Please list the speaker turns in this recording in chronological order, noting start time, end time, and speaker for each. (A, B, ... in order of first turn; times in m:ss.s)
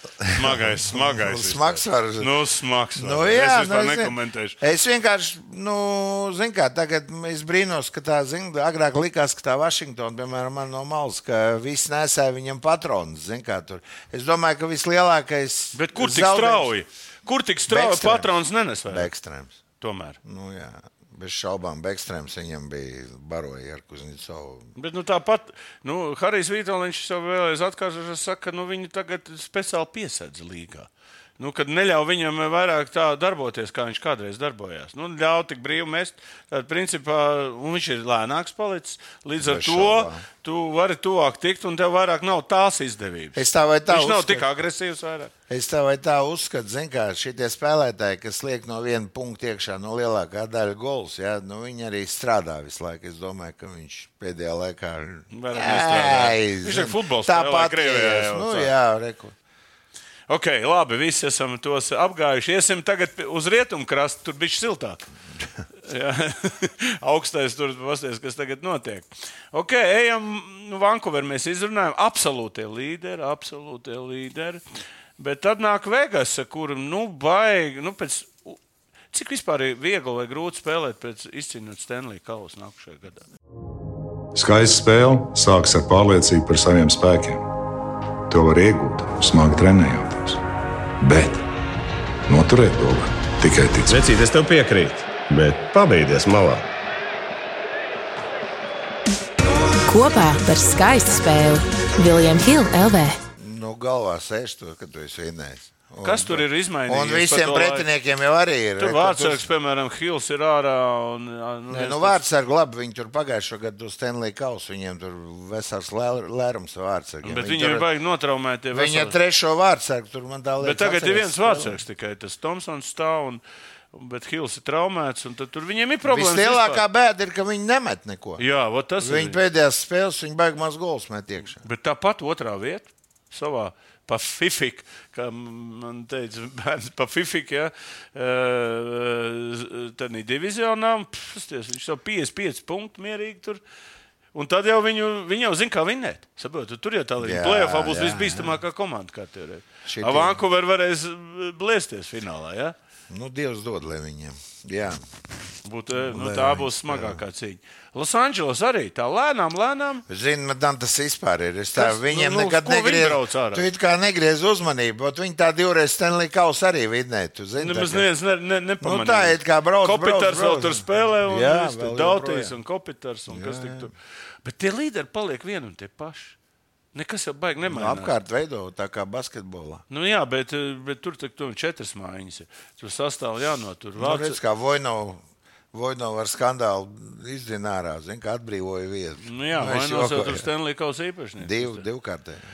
0:00.2-0:02.3 A
0:00.3-0:04.6 B
0:03.0-0:16.7 A
0:15.7-0:19.1 B
0:17.7-0:18.3 A
0:18.9-0:19.6 A
0:19.8-0:20.2 B
0:20.2-0:24.7 A
0:24.8-0:45.3 B
0:39.4-0:40.2 A
0:43.4-0:44.5 A
0:45.5-0:59.4 A
0:55.3-0:58.7 B
1:00.3-1:05.0 B
1:05.8-1:14.6 B
1:15.2-1:18.6 B
1:19.1-1:23.2 B
1:24.4-1:27.5 C
1:28.3-1:30.4 C
1:31.0-1:31.4 C
1:32.3-1:34.0 C
1:33.9-1:36.7 D
1:39.9-1:43.2 E
1:43.4-1:49.5 A
1:46.0-1:47.9 B
1:48.8-1:52.2 B
1:51.7-1:57.9 A
1:57.2-1:59.2 B
1:58.7-2:01.8 A
2:00.6-2:03.4 B
2:03.9-2:06.8 B
2:06.0-2:08.4 A
2:08.4-2:09.4 B
2:09.0-2:11.6 A
2:11.6-2:23.6 B
2:24.3-2:32.8 B
2:27.2-2:28.6 A
2:29.9-2:30.4 A
2:33.1-2:35.0 A
2:35.6-2:40.0 B
2:35.9-2:37.2 A
2:40.1-2:48.1 A
2:41.7-2:43.7 B
2:47.6-2:53.9 B
2:48.8-2:52.6 A
2:53.3-2:53.9 A
2:54.4-2:56.4 B
2:56.9-2:58.1 B
2:57.6-2:59.8 A
2:59.9-3:04.4 B
3:04.0-3:05.2 A
3:05.7-3:10.5 A
3:09.2-3:11.8 B
3:11.4-3:12.4 A